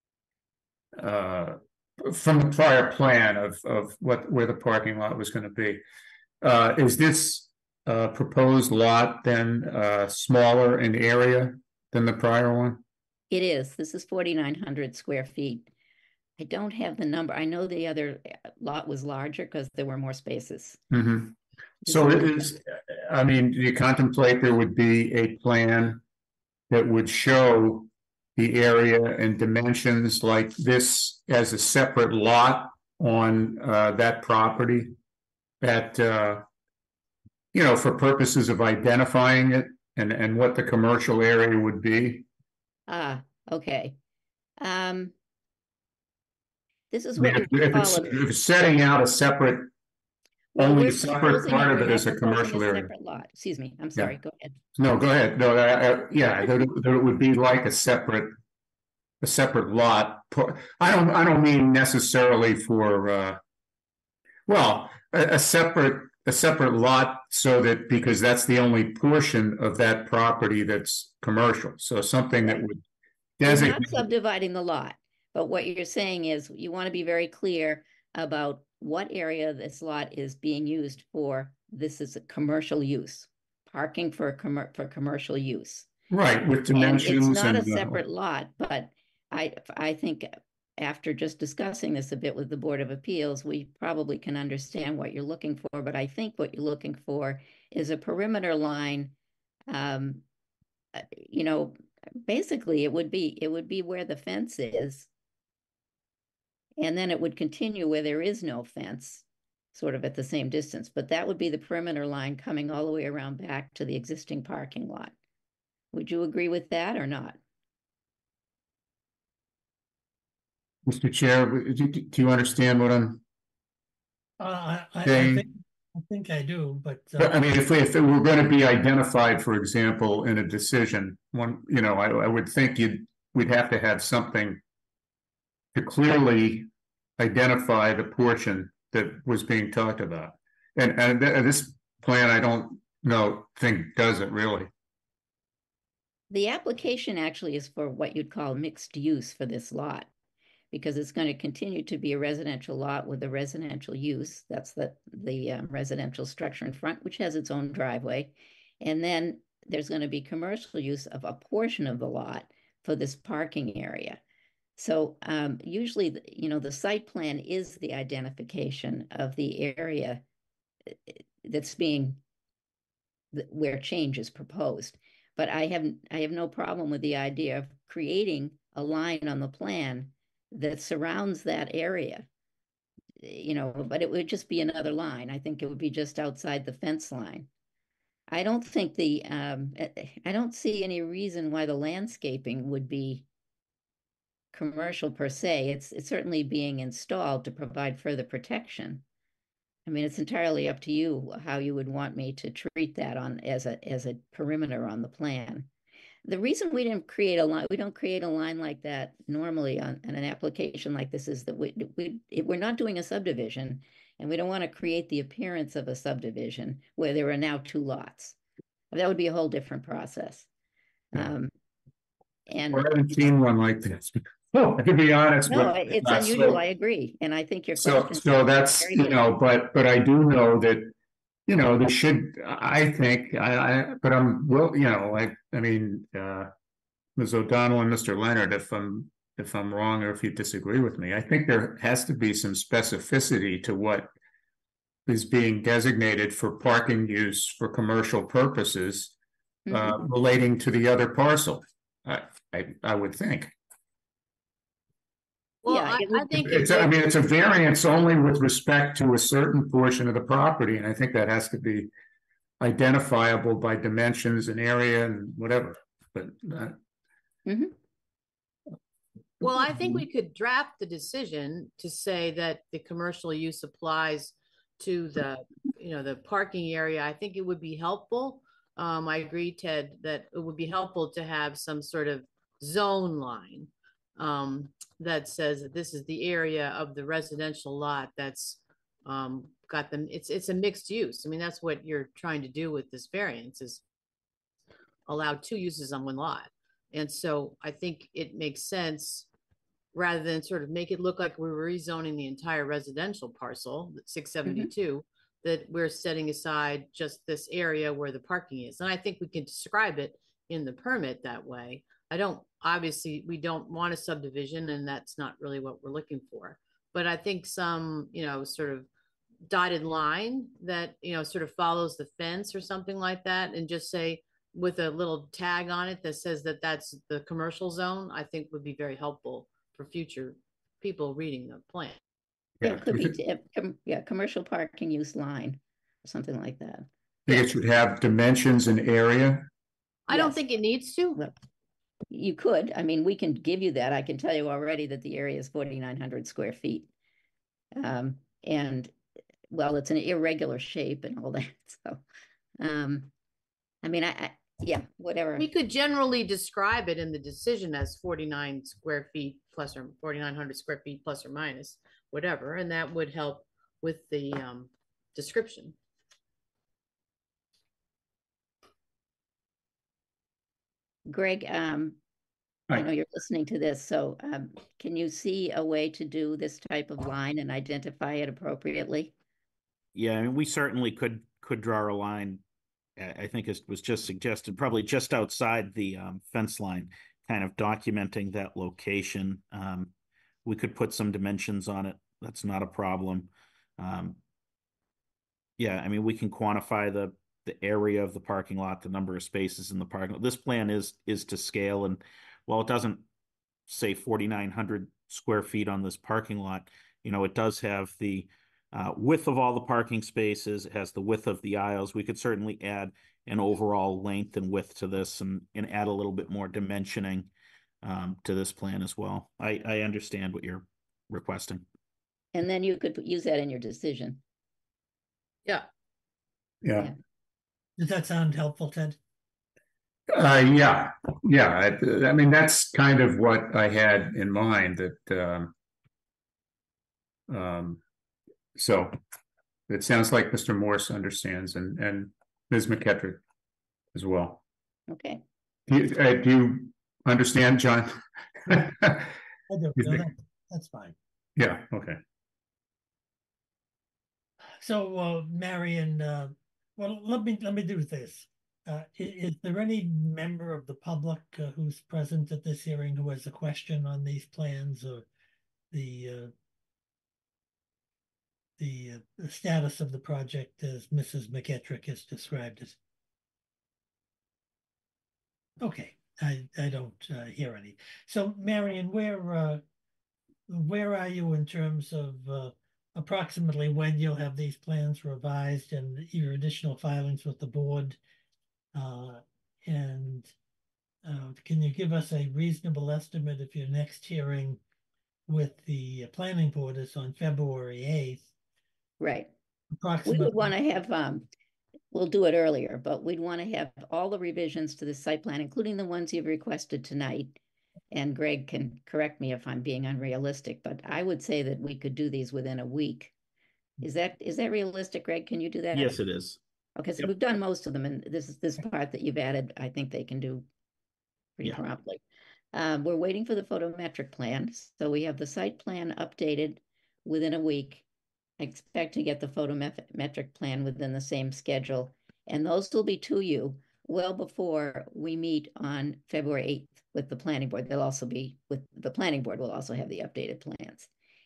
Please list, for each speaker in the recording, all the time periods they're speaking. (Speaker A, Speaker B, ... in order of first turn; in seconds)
Speaker A: 1.0-5.8, 6.4-12.8, 20.9-21.4, 21.9-26.0, 26.7-35.0, 35.6-36.4, 37.5-42.3, 47.2-49.7, 50.6-52.9, 54.8-58.3, 59.2-63.4, 64.5-72.8, 73.4-74.1, 86.1-88.0, 120.9-123.2, 125.0-125.5, 127.2-134.6, 135.8-144.7, 222.7-226.6, 227.8-230.9, 231.5-236.5, 237.2-244.1, 245.1-249.1, 249.7-253.5, 256.3-261.9, 262.6-266.8, 332.6-333.1, 337.3-339.5, 426.6-426.9, 430.1-435.5, 437.3-437.8, 438.6-439.0, 439.7-443.2, 443.9-444.4, 445.7-449.1, 449.8-450.1, 451.4-452.0
Speaker B: 13.3-15.7, 16.4-20.8, 21.9-22.5, 42.9-44.0, 44.6-45.1, 46.9-48.2, 50.5-54.5, 73.4-85.9, 86.7-99.1, 99.7-100.2, 101.0-101.7, 102.3-105.1, 106.8-115.1, 115.9-117.4, 146.3-150.1, 150.7-164.2, 164.8-170.2, 170.9-172.2, 173.3-182.3, 183.2-187.5, 188.3-193.3, 194.5-199.0, 199.9-205.7, 206.2-218.4, 218.9-220.5, 221.1-221.5, 222.5-222.9, 225.5-229.2, 249.7-250.0, 255.7-256.3, 267.5-267.8, 332.6-337.5, 340.1-340.4, 342.1-346.9, 347.8-348.9, 349.5-352.0, 352.6-353.1, 353.8-355.5, 371.1-372.0, 372.7-379.1, 422.4-424.2, 444.9-445.2, 499.0-499.3, 500.1-501.2, 501.9-507.4, 507.9-513.1, 513.8-516.0, 516.8-520.5, 521.4-522.0, 522.5-527.9, 528.4-540.9
Speaker C: 124.4-127.3, 427.8-429.0, 449.5-450.9, 454.6-465.1, 465.7-466.3, 468.6-472.8, 475.6-479.6, 480.5-488.0, 488.7-490.3, 491.0-494.6, 495.3-498.3, 499.8-500.5
Speaker D: 255.6-256.9, 269.4-293.8, 295.1-299.3, 299.9-318.9, 319.5-332.0, 340.1-341.2, 355.4-365.8
Speaker E: 379.9-382.4, 383.0-389.9, 390.4-394.2, 395.6-403.1, 403.7-417.3, 417.8-421.6, 515.7-516.4